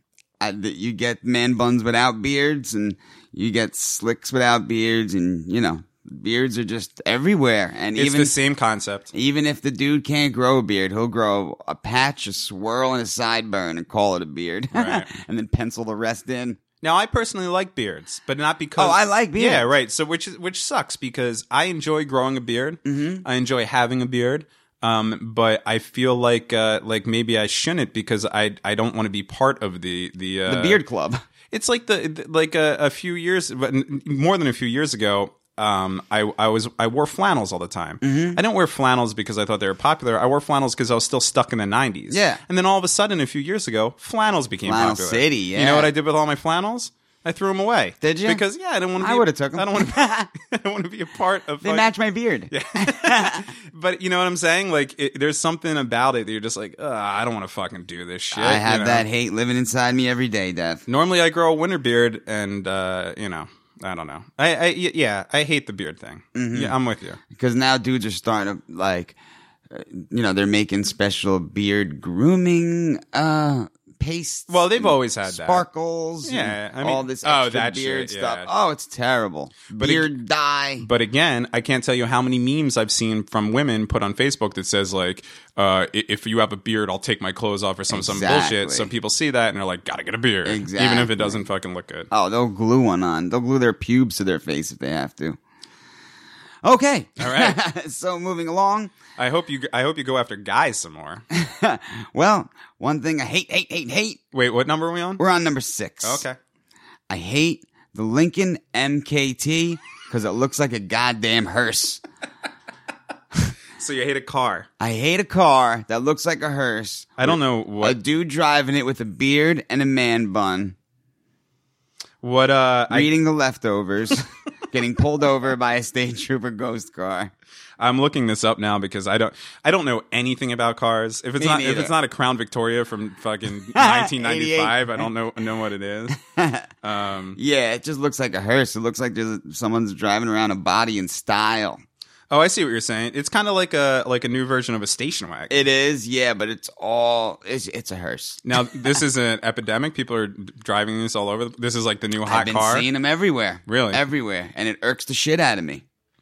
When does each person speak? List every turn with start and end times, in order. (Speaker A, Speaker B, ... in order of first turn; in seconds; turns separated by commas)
Speaker A: 0.4-8.3, Speaker B: 8.0-9.1, Speaker A: 9.1-16.6, Speaker B: 14.7-15.1, Speaker B: 16.8-30.8, Speaker A: 18.8-19.7, Speaker A: 22.9-23.2, Speaker A: 30.5-31.2, Speaker B: 31.5-51.9, Speaker A: 38.0-38.4, Speaker A: 42.1-42.4, Speaker A: 44.7-45.9, Speaker A: 48.0-48.4, Speaker A: 49.0-50.3, Speaker A: 51.6-53.5, Speaker B: 52.5-59.1, Speaker A: 58.3-60.8, Speaker B: 60.9-67.2, Speaker A: 66.3-66.8, Speaker A: 67.3-69.2, Speaker A: 69.7-80.9, Speaker B: 74.5-75.7, Speaker B: 76.2-78.5, Speaker B: 79.8-80.1, Speaker B: 80.8-92.1, Speaker A: 87.9-88.9, Speaker A: 90.5-91.4, Speaker A: 92.1-95.4, Speaker A: 96.6-98.9, Speaker B: 97.2-97.6, Speaker B: 99.2-101.2, Speaker A: 101.3-104.2, Speaker B: 104.3-105.2, Speaker A: 105.2-106.2, Speaker B: 106.0-106.4, Speaker A: 107.1-112.0, Speaker B: 113.8-114.7, Speaker A: 114.8-120.8, Speaker B: 117.2-118.0, Speaker B: 122.2-123.1, Speaker A: 122.9-127.3, Speaker B: 127.8-136.2, Speaker A: 131.4-131.9, Speaker A: 133.8-135.1, Speaker A: 136.2-136.7, Speaker B: 136.8-137.4, Speaker A: 137.4-141.8, Speaker B: 142.3-145.6, Speaker A: 145.5-148.4, Speaker B: 148.4-152.9, Speaker A: 152.2-155.8, Speaker B: 153.7-154.0